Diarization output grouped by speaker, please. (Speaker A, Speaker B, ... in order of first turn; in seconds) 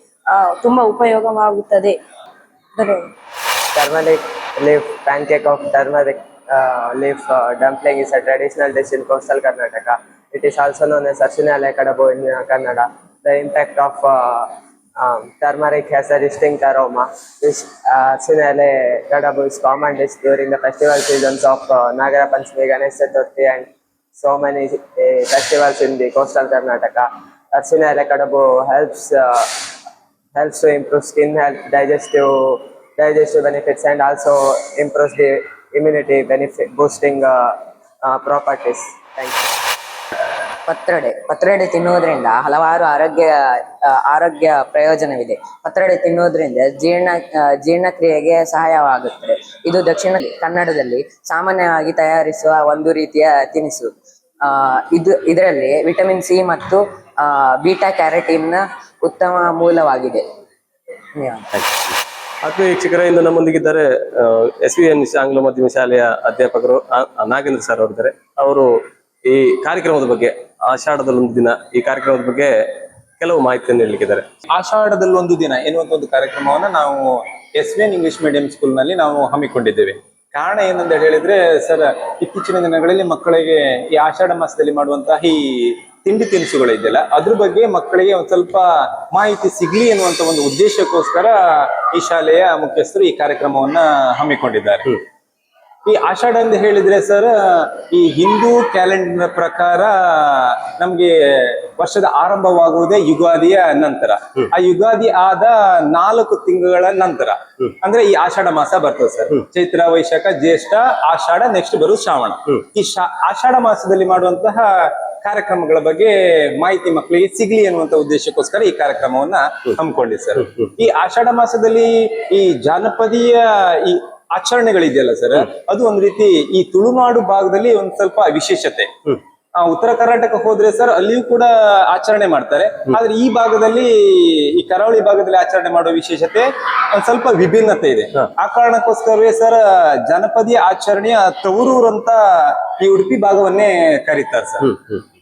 Speaker A: 0.3-1.9, 2.8-3.1
Speaker B: 3.7-29.5, 30.3-39.5
Speaker C: 40.7-53.9, 54.4-60.2, 61.1-61.5
Speaker D: 61.5-72.5, 73.2-74.2, 144.6-145.0
Speaker E: 74.5-95.0, 95.8-128.9, 129.6-144.7